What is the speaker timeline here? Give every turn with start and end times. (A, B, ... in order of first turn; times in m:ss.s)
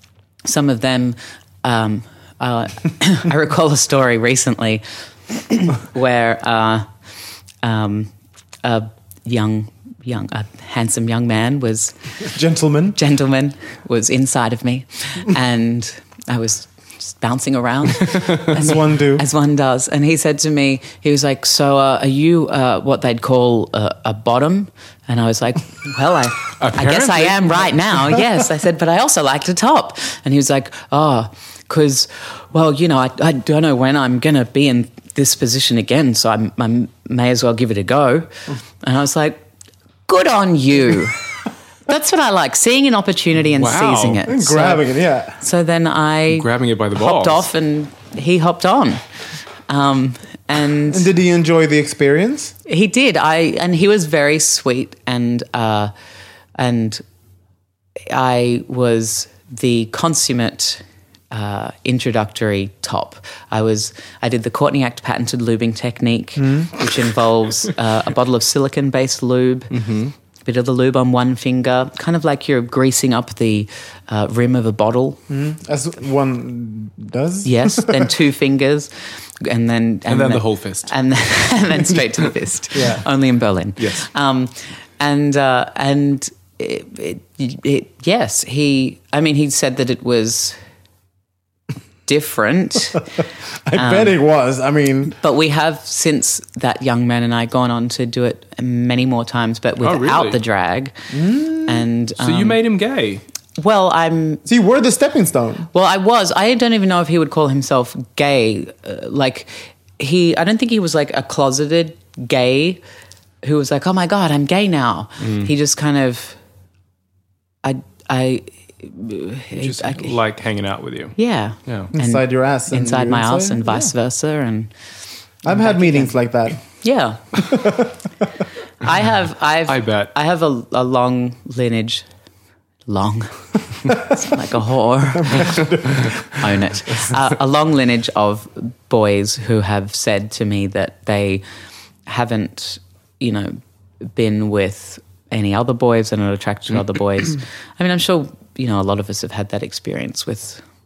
0:00.4-0:06.8 A
0:07.6-0:08.1 A
0:08.6-0:12.0 A
0:12.2-0:13.0 B
0:13.0-0:38.3 A
0:18.5-0:19.2 B
0:26.6-0:28.2 C
0:38.8-0:39.4 A
0:40.1-0:41.2 A
0:41.9-0:44.8 A
0:43.6-0:44.2 C
0:44.2-0:45.4 B
0:45.4-0:49.0 A
0:46.3-0:47.5 C
0:49.7-0:51.1 A
0:50.9-0:52.5 B
0:52.6-0:55.9 A
0:56.6-0:57.0 A
0:58.1-1:09.7 A
1:06.4-1:06.7 B
1:09.7-1:10.1 C
1:10.4-1:15.2 A
1:15.3-1:18.1 B
1:17.4-1:18.9 A
1:19.4-1:30.6 A
1:20.1-1:20.9 C
1:22.7-1:23.0 B
1:23.8-1:24.1 C
1:32.0-1:33.0 A
1:33.6-1:35.2 B
1:33.7-1:34.2 A
1:35.2-1:40.9 A
1:39.8-1:40.4 C
1:41.1-1:41.8 B
1:41.6-1:42.6 A
1:42.2-1:43.2 C
1:43.6-1:44.4 A
1:44.4-1:45.7 B
1:45.7-1:52.8 A
1:53.4-1:56.4 A
1:55.2-1:55.5 C
1:57.6-2:00.1 A
1:59.6-2:01.1 C
2:01.2-2:04.7 A
2:01.7-2:01.9 C
2:01.9-2:03.9 B
2:05.4-2:06.1 A
2:05.4-2:06.6 B
2:06.8-2:07.4 A
2:07.4-2:08.0 B
2:08.8-2:12.0 A
2:09.6-2:10.1 C
2:12.9-2:15.6 A
2:13.9-2:14.2 B
2:15.1-2:16.4 B
2:16.3-2:21.4 A
2:22.0-2:30.6 A